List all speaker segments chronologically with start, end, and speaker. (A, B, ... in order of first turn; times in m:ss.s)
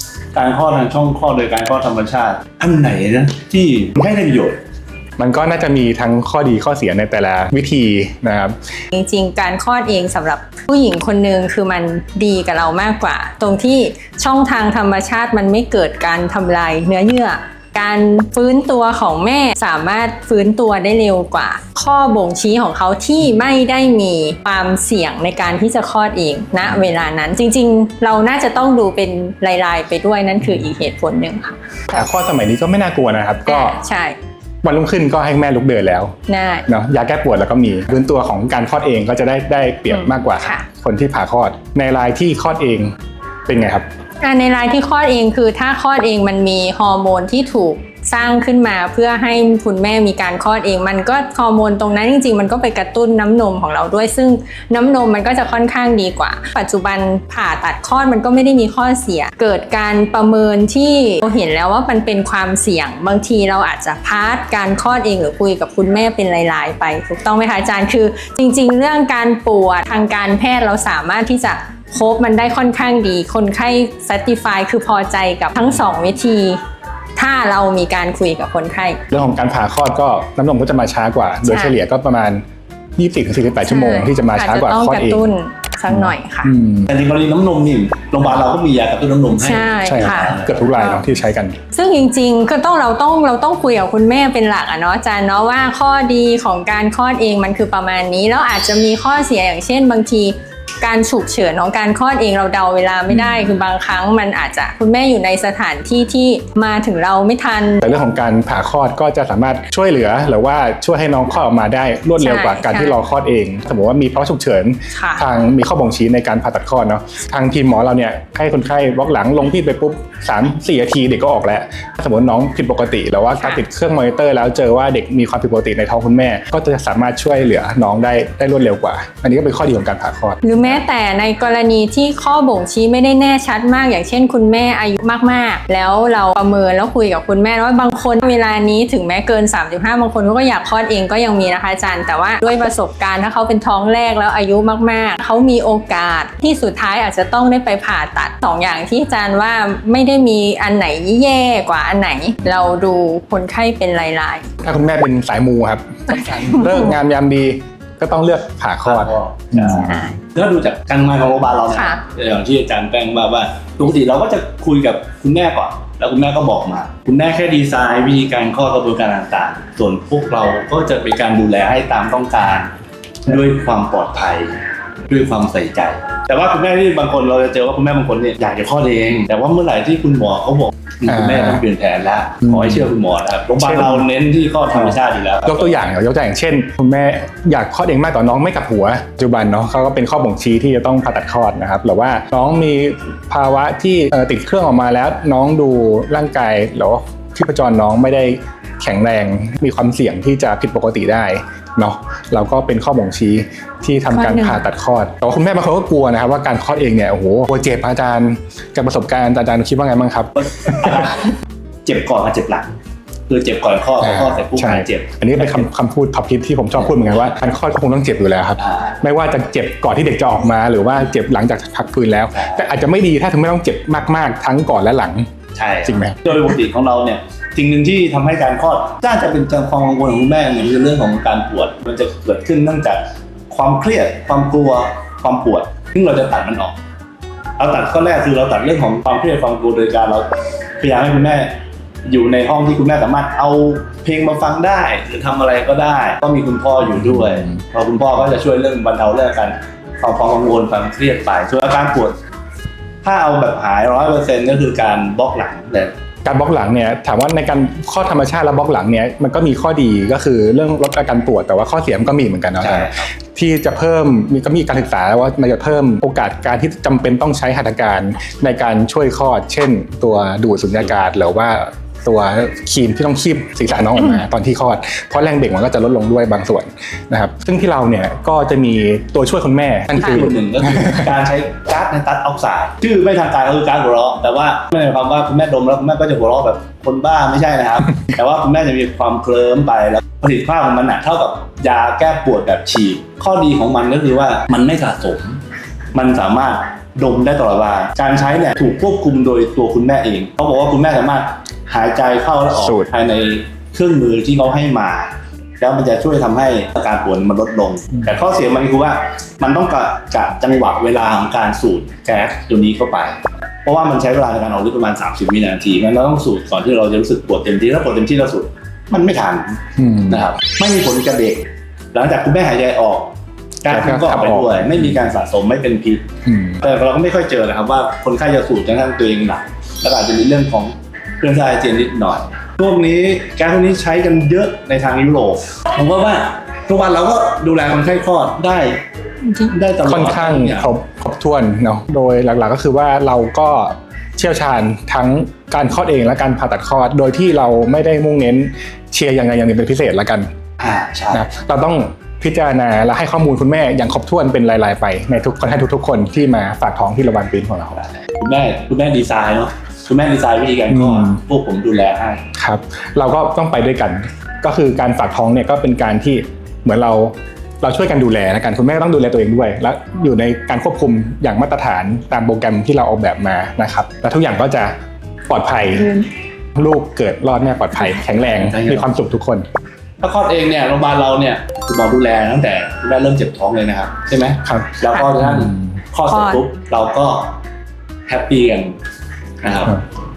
0:00.3-0:04.6 A
0:05.2-0:08.5 B
0:08.9-0:32.0 C
0:31.9-0:33.8 B
0:33.4-0:34.2 C
0:34.6-0:36.1 B
0:36.3-0:36.7 C
0:36.7-0:42.9 B
0:39.9-0:40.6 C
0:43.5-0:43.8 B
0:44.2-1:16.6 C
1:17.2-1:19.0 C
1:19.1-1:22.4 B
1:21.4-1:21.8 C
1:23.0-1:25.2 B
1:23.6-1:26.5 C
1:25.9-1:26.9 B
1:26.9-1:30.7 A
1:29.4-1:31.1 C
1:29.8-1:31.6 B
1:31.7-1:47.8 C
1:43.1-1:43.6 B
1:47.8-2:10.8 B
1:52.2-1:53.0 C
1:54.9-1:55.2 C
2:10.4-2:34.5 C
2:34.6-2:39.8 B
2:36.1-2:36.9 C
2:38.8-2:52.7 A
2:39.5-2:40.2 C
2:41.7-2:42.0 C
2:53.2-3:05.8 A
3:01.1-3:01.6 B
3:02.5-3:02.8 B
3:03.6-3:04.0 B
3:04.7-3:31.2 B
3:24.1-3:24.6 C
3:30.3-3:32.7 A
3:33.3-3:35.7 A
3:34.0-3:45.3 B
3:36.7-3:37.4 A
3:38.6-3:38.9 A
3:42.3-3:42.7 A
3:45.5-3:56.8 A
3:45.8-3:46.5 B
3:57.6-4:01.5 A
4:02.0-4:12.2 A
4:13.0-4:15.9 A
4:16.2-4:41.1 B
4:22.6-4:23.1 A
4:40.0-4:55.4 A
4:55.9-5:26.0 A
5:02.6-5:02.9 B
5:19.8-5:20.2 B
5:23.7-5:25.0 B
5:26.2-5:26.6 B
5:26.6-5:40.7 A
5:39.8-5:50.3 B
5:50.6-5:51.2 A
5:51.1-5:57.8 B
5:57.7-6:02.2 A
6:00.7-6:01.2 B
6:02.4-6:14.7 B
6:15.3-6:16.0 B
6:16.6-6:19.4 B
6:18.0-6:18.9 A
6:20.0-6:27.3 A
6:24.4-6:25.7 B
6:26.1-6:26.4 C
6:28.1-6:28.7 A
6:29.4-6:29.8 A